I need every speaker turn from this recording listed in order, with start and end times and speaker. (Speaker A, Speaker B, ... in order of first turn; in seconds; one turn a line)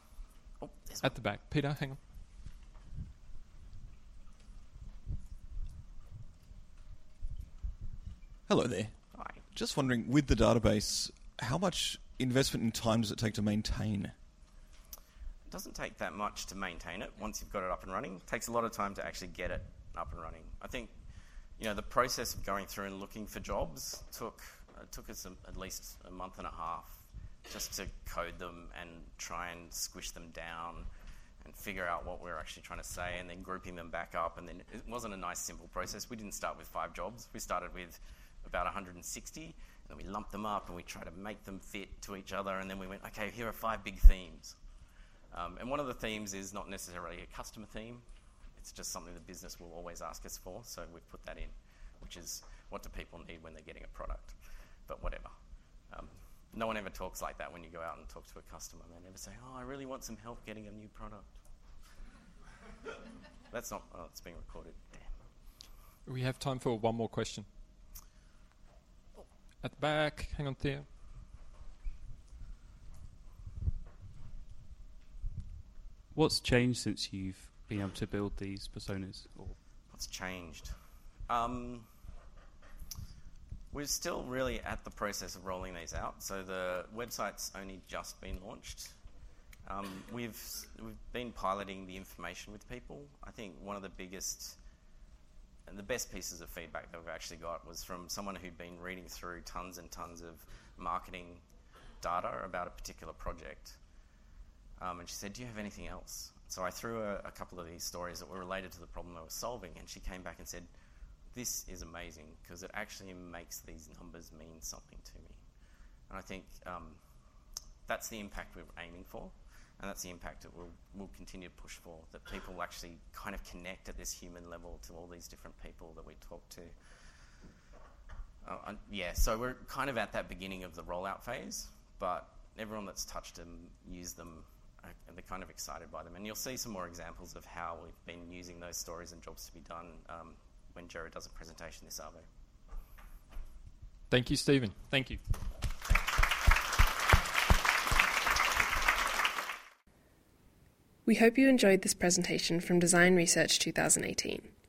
Speaker A: 0.6-1.1
Speaker B: 1.0-2.0
Speaker C: 8.5-14.1
Speaker A: 9.1-9.4
Speaker A: 15.5-20.9
Speaker A: 21.6-30.9
Speaker A: 31.4-44.6
Speaker A: 45.3-48.0
Speaker A: 48.5-55.3
Speaker A: 55.9-61.3
Speaker A: 63.5-65.1
Speaker B: 66.0-67.5
Speaker B: 69.6-70.8
Speaker D: 76.1-79.6
Speaker A: 79.9-80.8
Speaker A: 81.3-81.9
Speaker A: 83.7-88.9
Speaker A: 89.7-94.6
Speaker A: 95.7-101.4
Speaker A: 102.0-103.8
Speaker A: 104.8-110.7
Speaker A: 111.3-115.4
Speaker A: 116.1-117.0
Speaker A: 117.9-126.7
Speaker A: 128.4-142.3
Speaker B: 144.1-145.2
Speaker E: 151.1-154.5